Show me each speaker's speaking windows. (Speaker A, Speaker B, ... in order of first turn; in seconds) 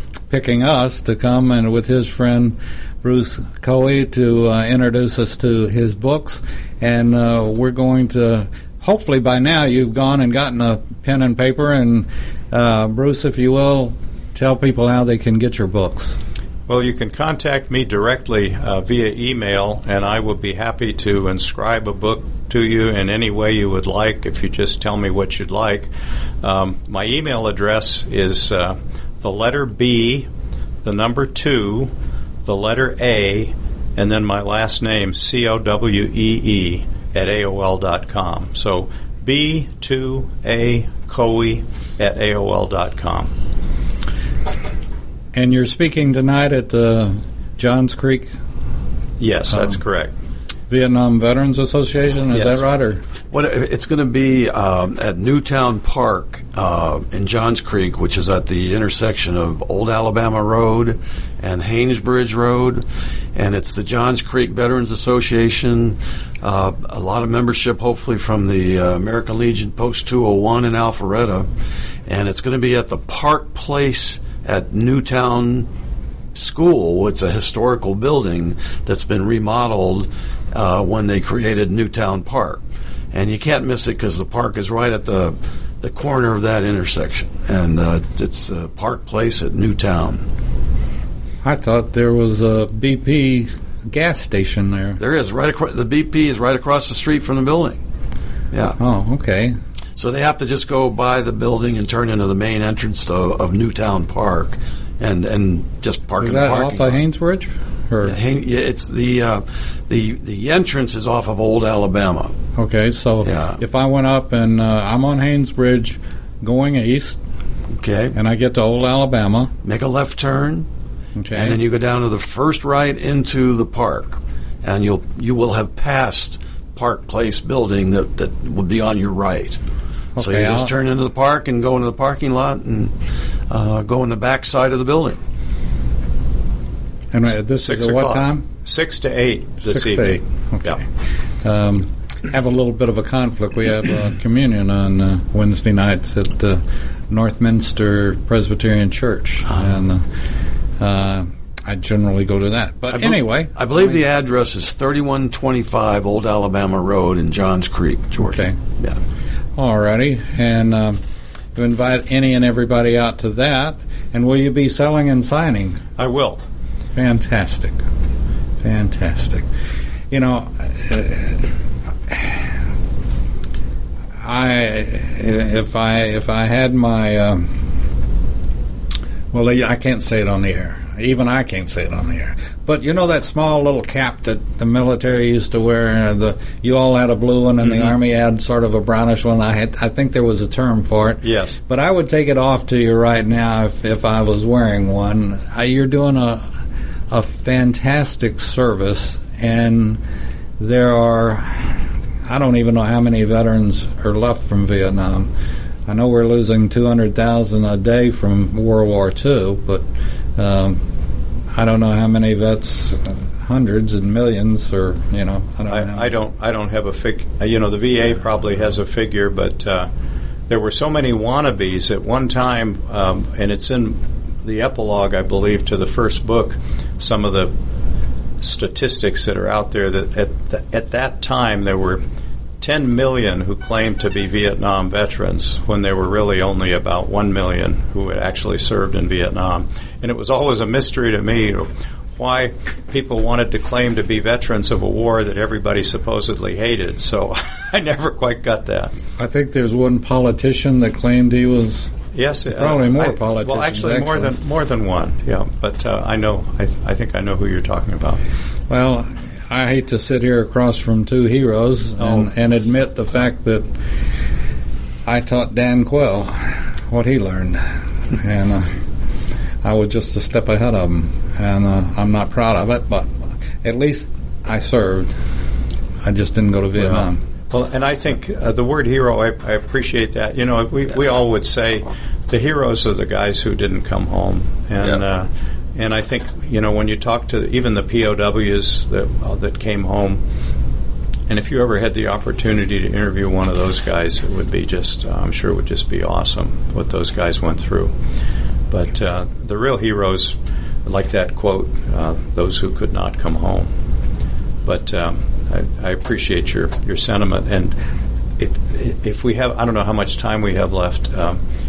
Speaker A: 0.3-16.2, 45.3-48.3, 50.7-53.0, 91.4-95.0, 98.8-99.6, 106.2-108.2, 112.6-117.2, 118.1-119.5, 121.2-121.6, 130.2-130.7, 137.1-138.4, 139.6-140.8, 141.4-150.1, 150.8-154.0, 158.2-158.6, 159.6-161.0, 161.6-165.8, 166.9-167.8, 168.6-169.5, 170.1-171.5, 172.1-172.5, 174.2-177.6, 179.3-196.5, 197.1-200.0, 200.6-205.3, 205.9-210.8, 211.5-216.1, 249.2-251.9, 252.5-254.3, 258.7-263.7, 265.1-268.7, 269.6-275.1, 276.0-277.2
Speaker B: 16.7-25.9, 26.4-30.3, 30.8-31.9, 32.5-43.3, 49.2-50.1, 52.3-52.6, 137.6-140.8, 166.0-166.4, 187.6-187.9, 191.2-191.6, 215.7-219.9, 220.5-227.5, 228.4-232.0, 232.6-248.9, 252.1-258.2, 262.0-262.3, 276.8-290.2, 291.3-297.9, 298.7-303.7, 304.7-307.7, 308.4-311.4
Speaker C: 53.3-62.8, 63.4-71.5, 72.1-75.7, 76.3-82.6, 83.1-90.2, 95.0-97.8, 98.5-98.8, 100.0-107.0, 108.0-112.4, 113.2-113.6, 117.8-118.2, 119.6-120.7, 121.3-129.6, 130.2-132.9, 133.5-135.2, 152.9-159.0